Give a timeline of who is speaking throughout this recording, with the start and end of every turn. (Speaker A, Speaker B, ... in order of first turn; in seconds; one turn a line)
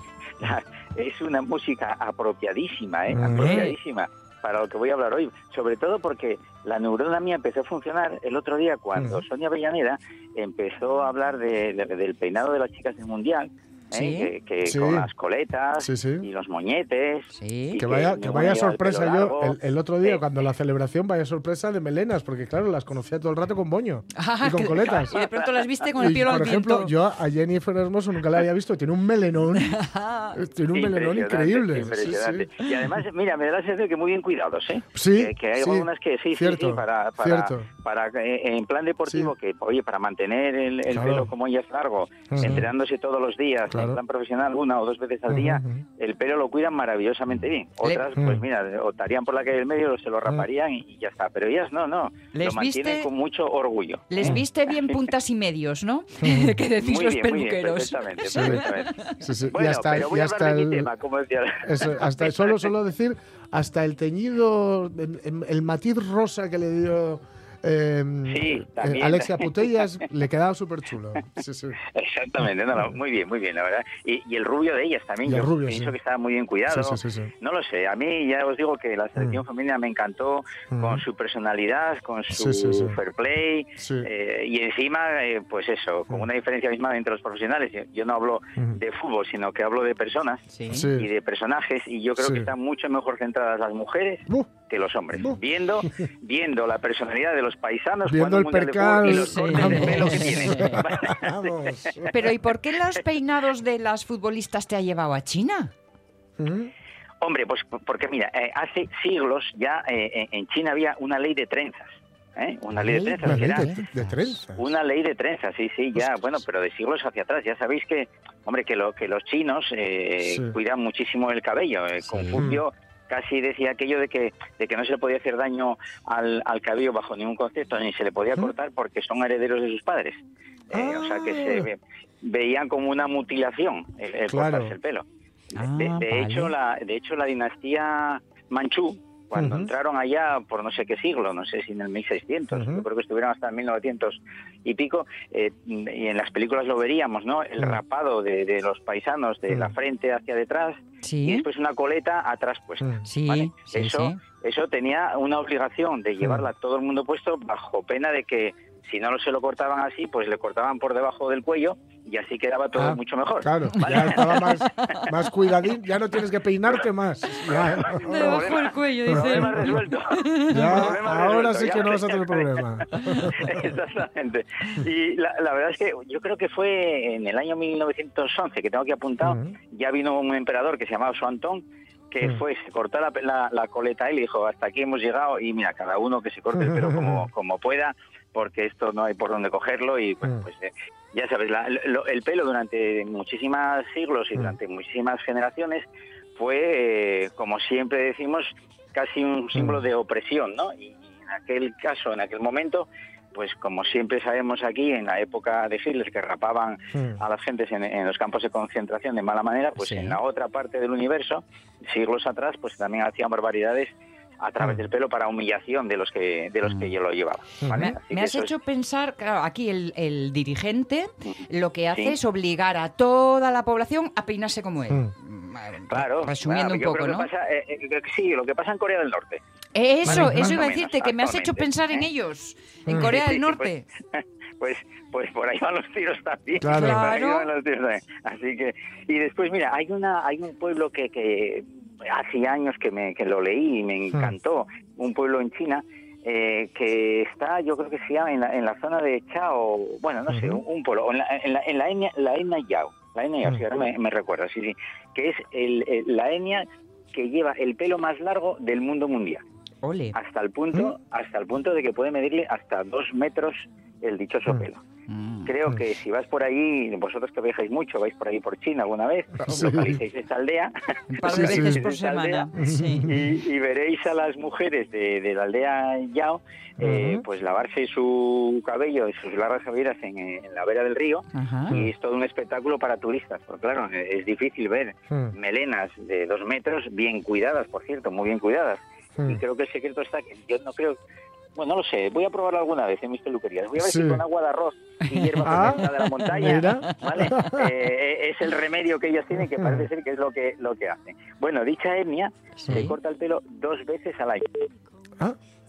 Speaker A: 0.4-20.2
Speaker B: 3.1-3.7
Speaker B: 8.9-9.2
Speaker C: 13.9-14.3
Speaker B: 14.7-15.1
Speaker B: 15.8-16.3
Speaker C: 17.3-17.8
Speaker B: 17.8-25.2
Speaker C: 24.1-26.9
Speaker A: 25.1-25.7
Speaker B: 26.0-29.8
Speaker C: 29.6-30.4
Speaker B: 30.3-32.5
Speaker A: 30.7-55.0
Speaker B: 34.9-37.7
Speaker B: 39.1-39.3
Speaker B: 40.9-41.3
Speaker B: 42.3-42.7
Speaker B: 43.7-44.0
Speaker B: 45.3-45.8
Speaker B: 48.2-48.5
Speaker C: 52.3-53.1
Speaker C: 54.1-59.1
Speaker B: 56.2-56.6
Speaker A: 56.8-62.6
Speaker B: 58.3-58.7
Speaker B: 59.2-60.9
Speaker B: 61.6-71.8
Speaker A: 68.3-69.6
Speaker A: 71.9-101.7
Speaker B: 75.2-76.0
Speaker B: 76.7-77.3
Speaker B: 79.2-79.4
Speaker B: 80.7-81.0
Speaker B: 82.3-83.0
Speaker B: 83.8-84.1
Speaker C: 90.5-90.9
Speaker B: 90.7-91.1
Speaker B: 92.2-92.5
Speaker B: 95.2-95.9
Speaker B: 98.1-102.3
Speaker C: 99.0-100.8
Speaker C: 102.1-105.7
Speaker B: 106.4-106.7
Speaker A: 107.2-113.7
Speaker C: 112.8-114.3
Speaker B: 113.2-114.7
Speaker A: 114.5-135.1
Speaker B: 120.2-120.6
Speaker C: 122.0-122.5
Speaker B: 122.3-122.6
Speaker B: 130.7-131.7
Speaker B: 134.3-134.8
Speaker C: 135.6-136.5
Speaker A: 135.6-165.0
Speaker B: 139.3-139.7
Speaker B: 142.5-142.9
Speaker C: 151.0-151.4
Speaker B: 152.8-153.1
Speaker C: 153.0-154.2
Speaker B: 156.2-156.5
Speaker B: 162.8-168.6
Speaker C: 164.1-165.1
Speaker A: 167.4-218.5
Speaker C: 167.9-170.9
Speaker B: 169.1-169.8
Speaker B: 170.5-173.7
Speaker C: 172.9-173.3
Speaker B: 179.2-179.6
Speaker B: 186.5-187.3
Speaker B: 199.6-199.8
Speaker B: 206.9-207.2
Speaker C: 209.8-210.2
Speaker B: 217.6-218.0
Speaker C: 217.7-227.3
Speaker A: 225.9-229.4
Speaker C: 229.8-233.9
Speaker A: 230.1-232.0
Speaker B: 230.1-230.6
Speaker B: 232.9-233.1
Speaker A: 232.9-259.4
Speaker B: 236.6-237.1
Speaker C: 236.6-237.5
Speaker B: 250.3-250.6
Speaker C: 259.8-260.2
Speaker A: 260.1-264.8
Speaker C: 265.1-265.5
Speaker A: 265.5-272.5
Speaker B: 269.4-270.0
Speaker C: 271.1-273.1
Speaker B: 271.3-271.9
Speaker B: 272.5-273.4
Speaker A: 273.0-291.0
Speaker B: 276.8-277.2
Speaker C: 281.3-281.8
Speaker B: 285.1-285.4
Speaker A: 291.6-304.7
Speaker B: 293.8-294.2
Speaker C: 295.1-296.9
Speaker B: 295.4-297.7
Speaker B: 299.5-299.9
Speaker C: 302.6-302.9